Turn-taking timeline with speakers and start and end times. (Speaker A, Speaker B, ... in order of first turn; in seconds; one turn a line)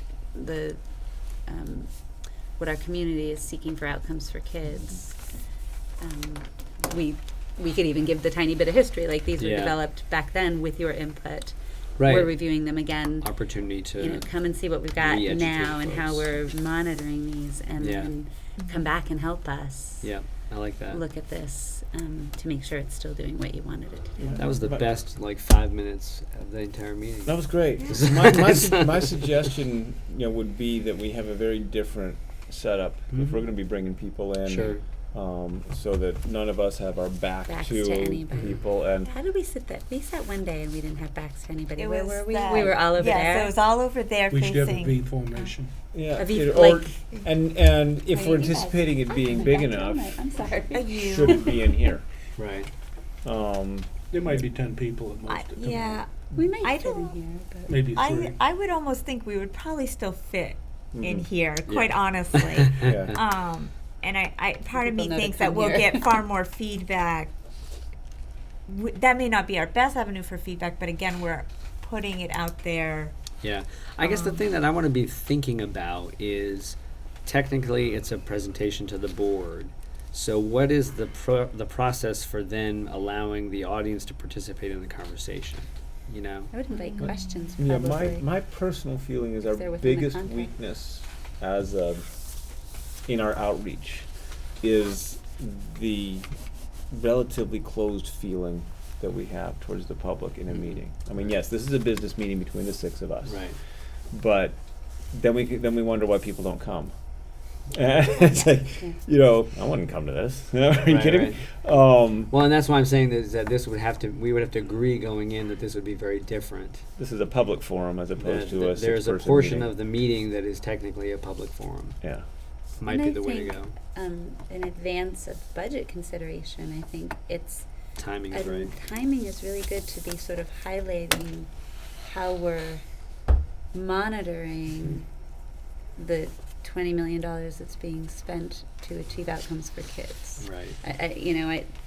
Speaker A: 0.3-20.1
Speaker B: 9.4-9.8
Speaker B: 12.0-12.4
Speaker B: 13.2-14.3
Speaker B: 15.0-16.3
Speaker B: 17.8-18.1
Speaker C: 18.6-18.9
Speaker B: 20.0-21.0
Speaker A: 20.9-24.5
Speaker D: 24.2-24.9
Speaker B: 24.4-28.8
Speaker D: 27.3-39.1
Speaker B: 33.1-33.4
Speaker B: 34.5-34.8
Speaker A: 37.5-43.6
Speaker C: 41.8-45.5
Speaker E: 44.3-45.7
Speaker D: 45.9-50.2
Speaker A: 46.1-47.0
Speaker A: 48.1-51.9
Speaker C: 50.7-51.5
Speaker D: 51.0-52.0
Speaker B: 52.4-52.7
Speaker D: 53.2-53.9
Speaker E: 54.1-55.9
Speaker C: 55.3-57.2
Speaker A: 55.7-57.8
Speaker E: 57.7-58.4
Speaker C: 57.8-67.3
Speaker D: 60.9-61.3
Speaker B: 61.7-63.1
Speaker D: 62.8-63.2
Speaker A: 64.7-66.3
Speaker C: 68.7-73.1
Speaker B: 73.4-86.5
Speaker C: 74.0-74.4
Speaker A: 86.5-88.2
Speaker C: 86.7-87.2
Speaker D: 87.0-92.1
Speaker A: 89.4-90.5
Speaker D: 93.1-94.1
Speaker D: 94.6-96.3
Speaker D: 96.9-103.5
Speaker B: 100.5-101.3
Speaker B: 103.2-103.6
Speaker D: 104.1-104.6
Speaker D: 105.1-106.9
Speaker D: 107.7-112.3
Speaker A: 108.2-109.0
Speaker B: 110.8-111.4
Speaker B: 112.3-116.8
Speaker D: 117.0-119.7
Speaker B: 118.2-122.0
Speaker B: 122.8-123.8
Speaker A: 122.9-127.7
Speaker B: 128.0-128.7
Speaker A: 128.3-132.8
Speaker A: 133.7-135.1
Speaker A: 136.0-141.7
Speaker B: 140.4-140.8